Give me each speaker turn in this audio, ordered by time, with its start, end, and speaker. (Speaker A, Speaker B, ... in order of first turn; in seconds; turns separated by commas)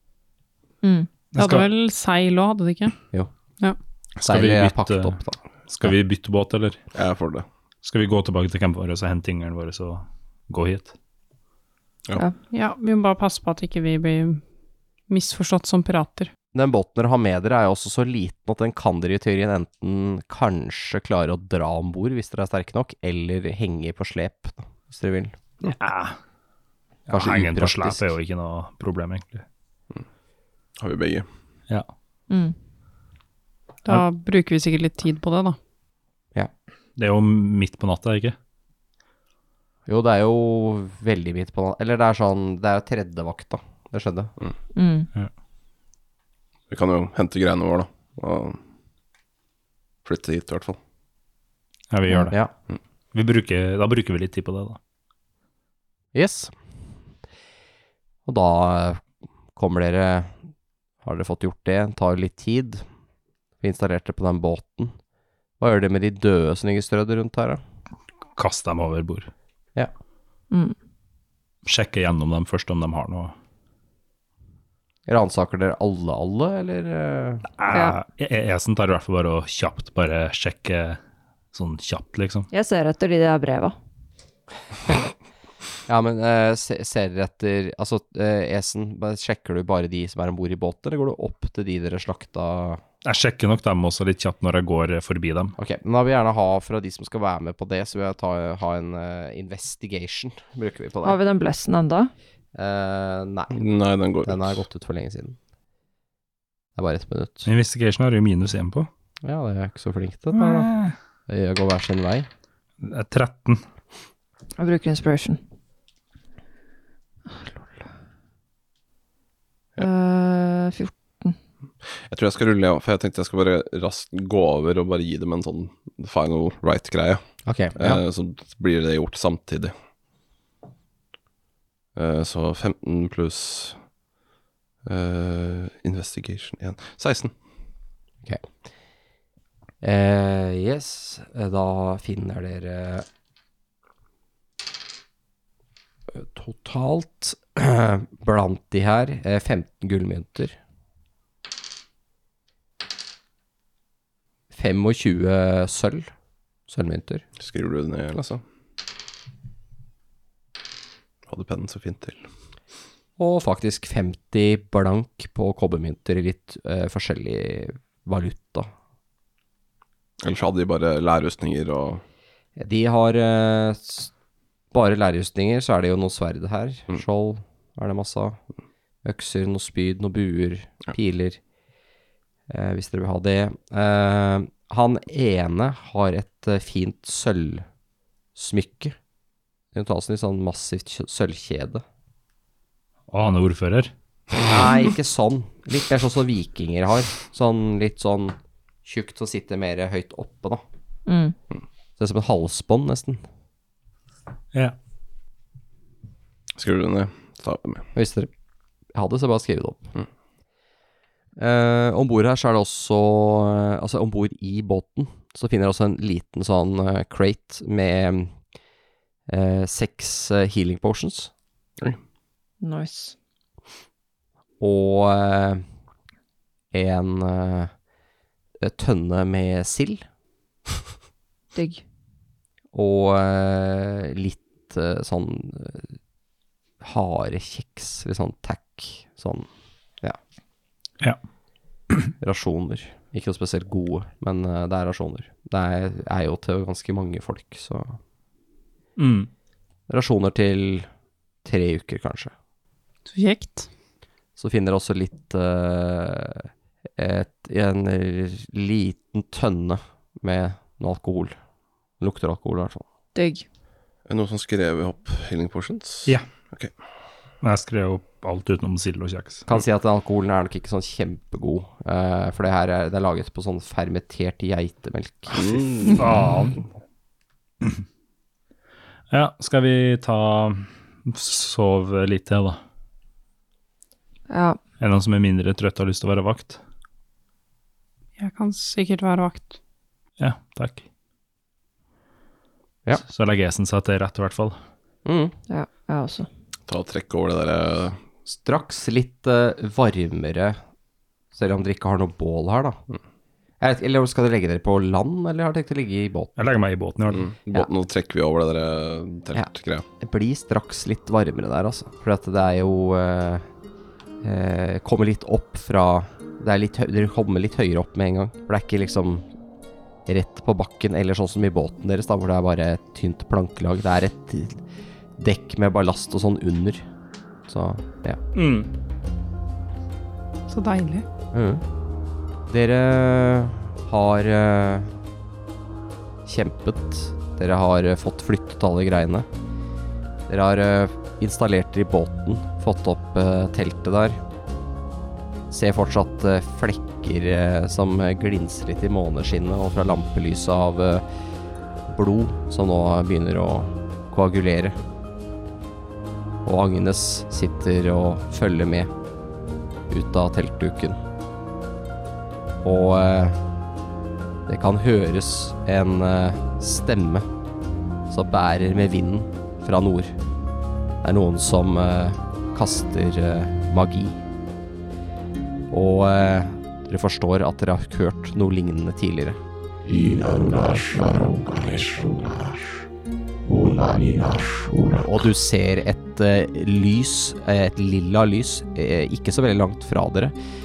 Speaker A: 0.8-1.2, Speaker B: 1.3-1.7, Speaker C: 1.4-3.0, Speaker B: 4.2-6.8, Speaker D: 4.2-5.4, Speaker E: 6.9-7.5, Speaker B: 7.8-10.9, Speaker C: 12.5-14.4, Speaker C: 15.1-16.3, Speaker D: 16.5-25.4, Speaker B: 25.6-26.2, Speaker B: 27.1-29.4, Speaker D: 27.1-28.1, Speaker E: 30.8-31.3, Speaker A: 32.3-32.5, Speaker C: 33.8-35.5, Speaker B: 37.0-38.4, Speaker D: 39.9-44.3, Speaker A: 44.8-45.1, Speaker E: 46.7-48.6, Speaker E: 50.0-50.8, Speaker B: 51.9-52.3, Speaker B: 53.1-54.8, Speaker D: 56.1-56.5, Speaker D: 58.3-59.0, Speaker D: 59.5-60.4, Speaker D: 61.0-62.8, Speaker D: 63.6-65.0, Speaker D: 65.6-67.6, Speaker B: 68.3-69.3, Speaker B: 71.6-73.3, Speaker D: 75.1-77.5, Speaker B: 77.6-81.0, Speaker A: 77.7-78.0, Speaker B: 81.5-82.5, Speaker A: 82.5-83.7, Speaker D: 85.9-92.8, Speaker B: 93.0-95.5, Speaker D: 95.6-101.2, Speaker A: 101.0-102.1, Speaker D: 102.5-103.7, Speaker E: 103.5-104.6, Speaker D: 104.2-105.4, Speaker D: 106.8-107.5, Speaker B: 107.4-108.9, Speaker D: 109.2-110.7, Speaker B: 110.3-110.9, Speaker D: 111.3-112.3, Speaker B: 112.8-113.6, Speaker A: 114.6-115.4, Speaker A: 117.3-117.6, Speaker A: 119.8-121.4, Speaker E: 122.0-127.2, Speaker D: 127.4-128.0, Speaker E: 127.7-129.7, Speaker E: 131.9-133.8, Speaker E: 134.8-137.3, Speaker D: 139.8-143.1, Speaker D: 146.1-150.6, Speaker D: 154.5-156.1, Speaker D: 156.7-157.2, Speaker E: 157.4-158.4, Speaker E: 161.3-162.3, Speaker D: 163.2-168.7, Speaker E: 170.2-172.0, Speaker D: 172.6-174.1, Speaker D: 174.7-178.4, Speaker D: 179.1-181.4, Speaker D: 182.5-187.7, Speaker D: 188.3-188.9, Speaker D: 189.7-191.8, Speaker B: 193.1-193.9, Speaker D: 194.5-200.6, Speaker A: 201.1-201.4, Speaker D: 202.0-203.2, Speaker E: 206.6-207.9, Speaker D: 207.9-208.3, Speaker D: 208.9-209.9, Speaker D: 211.4-218.3, Speaker D: 219.3-221.3, Speaker A: 222.6-223.2, Speaker D: 224.6-225.6, Speaker D: 226.7-227.7, Speaker D: 228.6-230.0, Speaker A: 231.6-231.8, Speaker D: 232.7-236.0, Speaker D: 236.8-239.5, Speaker D: 242.2-248.0, Speaker B: 249.0-249.3, Speaker D: 249.9-250.9, Speaker D: 251.4-252.3, Speaker C: 253.1-253.7, Speaker D: 254.4-261.4, Speaker D: 262.0-262.8, Speaker A: 263.1-263.4, Speaker E: 264.1-266.7, Speaker B: 267.4-269.4, Speaker D: 269.5-275.7, Speaker E: 275.3-276.0, Speaker B: 276.0-276.6, Speaker B: 279.1-282.6, Speaker A: 284.3-284.6, Speaker B: 284.8-286.6, Speaker C: 288.2-289.6, Speaker B: 290.2-290.8, Speaker B: 293.1-294.6, Speaker D: 295.1-295.3, Speaker A: 295.5-296.3, Speaker E: 296.7-298.0, Speaker D: 298.3-300.6, Speaker D: 301.3-302.8, Speaker D: 303.6-306.4, Speaker B: 306.4-307.3, Speaker E: 307.1-309.8, Speaker D: 309.3-313.4, Speaker D: 314.2-319.3, Speaker D: 320.1-324.6, Speaker D: 325.2-326.8, Speaker D: 327.5-328.2, Speaker B: 328.3-328.7, Speaker C: 330.5-331.1, Speaker D: 331.3-331.6, Speaker D: 332.5-335.0, Speaker D: 336.3-339.3, Speaker D: 340.3-344.2, Speaker D: 345.5-351.1, Speaker D: 351.9-354.8, Speaker D: 356.4-358.9, Speaker D: 359.9-361.0, Speaker D: 362.6-363.4, Speaker D: 364.5-367.3, Speaker D: 368.1-370.1, Speaker D: 371.0-374.2, Speaker D: 375.7-379.4, Speaker D: 380.3-382.6, Speaker D: 384.9-390.3